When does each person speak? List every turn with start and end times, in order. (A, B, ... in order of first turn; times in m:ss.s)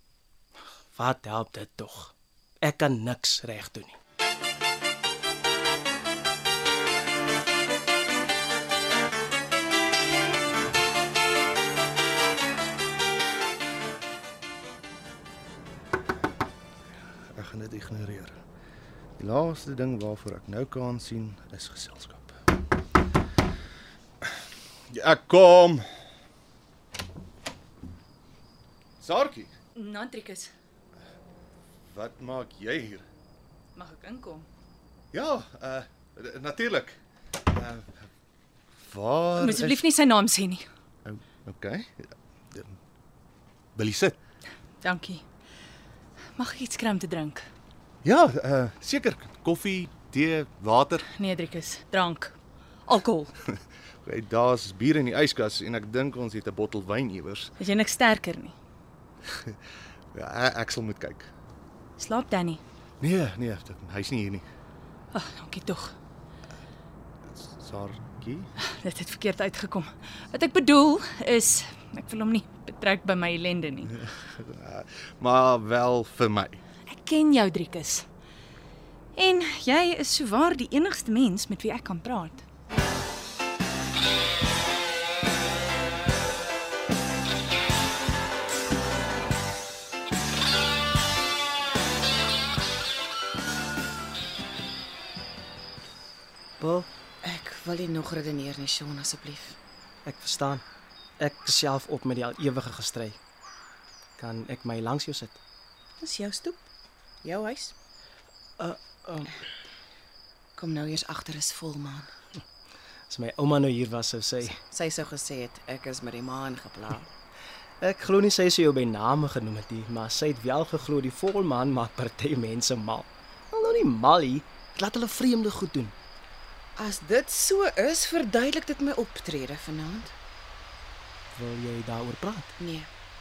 0:00.9-0:04.0 A
0:17.3-0:18.4 B
0:19.2-0:22.3 B
0:24.9-0:25.8 B
0:29.0-0:29.5 B
0:29.8-0:30.5 C
0:31.9-0:33.0 B
0:33.8-0:34.5 C
0:35.1-0:37.0 B
0:37.5-0:38.0 B
0:38.8-0:39.8 B
0:39.4-0:40.7 C
0:41.0-0:42.7 B
0:43.8-0:44.2 B
0:44.8-0:45.2 C
0:46.4-0:47.5 C
0:48.0-0:51.1 B
0:51.2-0:53.3 C
0:54.0-0:57.5 B
0:57.6-0:58.5 C
1:00.1-1:01.3 B
1:02.0-1:02.6 C
1:03.0-1:04.4 B
1:05.1-1:06.0 C
1:07.4-1:08.5 B
1:08.8-1:14.0 C
1:14.1-1:16.6 B
1:16.9-1:18.0 C
1:19.2-1:22.4 C
1:36.6-1:36.9 A
1:37.2-1:39.6 D
1:40.0-1:40.6 A
1:41.2-1:43.2 A
1:44.2-1:45.4 A
1:46.0-1:46.6 D
1:47.2-1:47.7 D
1:48.6-1:49.3 A
1:50.6-1:52.1 D
1:53.1-1:54.6 A
1:54.7-1:57.1 D
1:57.8-2:05.9 A
2:06.8-2:10.1 D
2:11.3-2:12.5 A
2:12.6-2:12.9 D